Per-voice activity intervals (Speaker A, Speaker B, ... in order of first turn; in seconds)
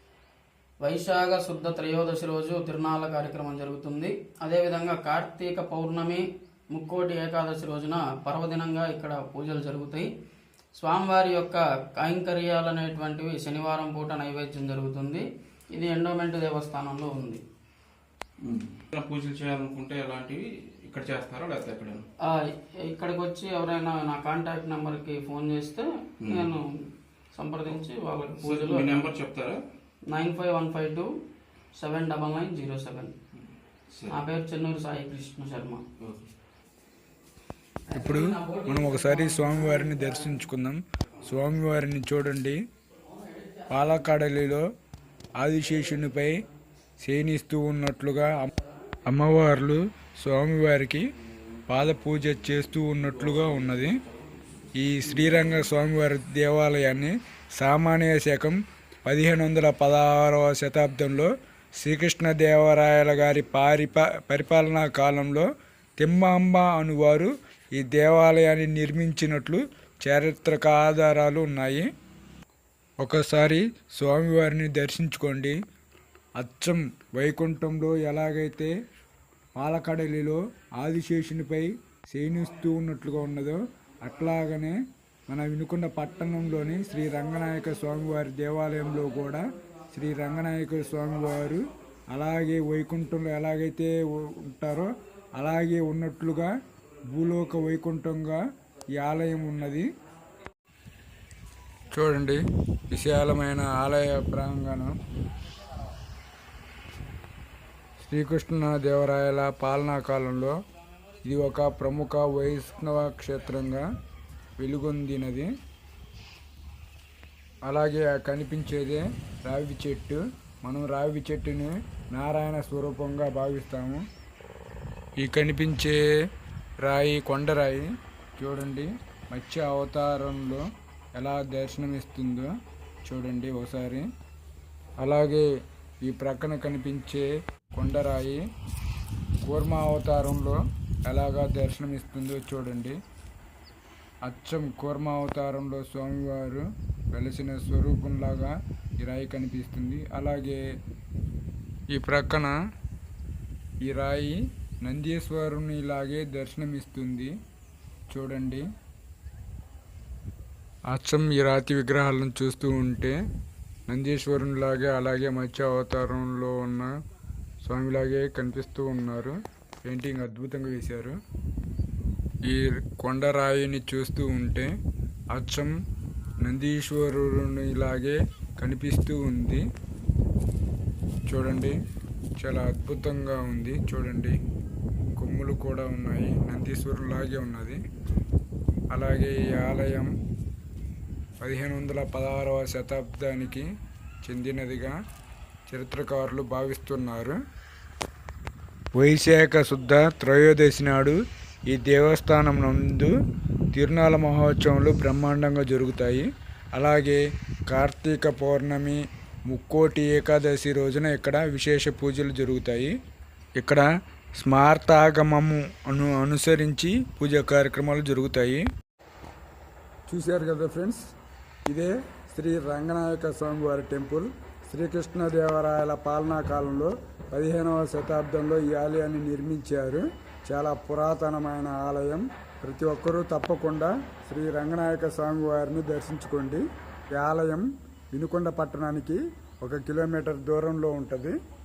Speaker A: 0.8-10.1, 10.8-17.4, 22.2-26.7, 27.4-29.0, 30.1-31.1, 31.8-33.1, 34.1-35.8, 37.9-40.3
Speaker B: 18.4-22.1, 26.2-26.5, 28.3-29.6, 36.0-36.3, 53.1-54.7
Speaker C: 37.9-42.6, 43.7-44.7, 45.4-46.3, 47.0-48.5, 49.1-51.0, 51.7-54.0, 54.8-65.5, 66.0-71.9, 73.0-75.5, 76.4-78.7, 79.6-84.8, 85.3-96.5, 97.1-98.4, 99.0-99.9, 101.9-105.0, 108.0-110.6, 111.2-113.8, 114.6-115.5, 117.7-124.0, 125.2-126.0, 126.8-132.5, 133.1-134.1, 135.0-135.4, 136.0-138.4, 139.5-143.0, 144.2-150.6, 151.9-152.5, 153.8-157.3, 158.1-158.6, 160.9-163.2, 163.9-166.9, 167.6-171.2, 172.5-174.7, 175.3-175.7, 176.4-179.6, 181.3-181.8, 182.4-184.4, 185.2-187.8, 188.9-190.1, 191.4-193.7, 194.2-194.9, 195.7-197.4, 198.9-201.2, 201.7-203.1, 203.7-212.9, 213.6-213.9, 214.4-218.6, 220.1-221.0, 221.7-241.3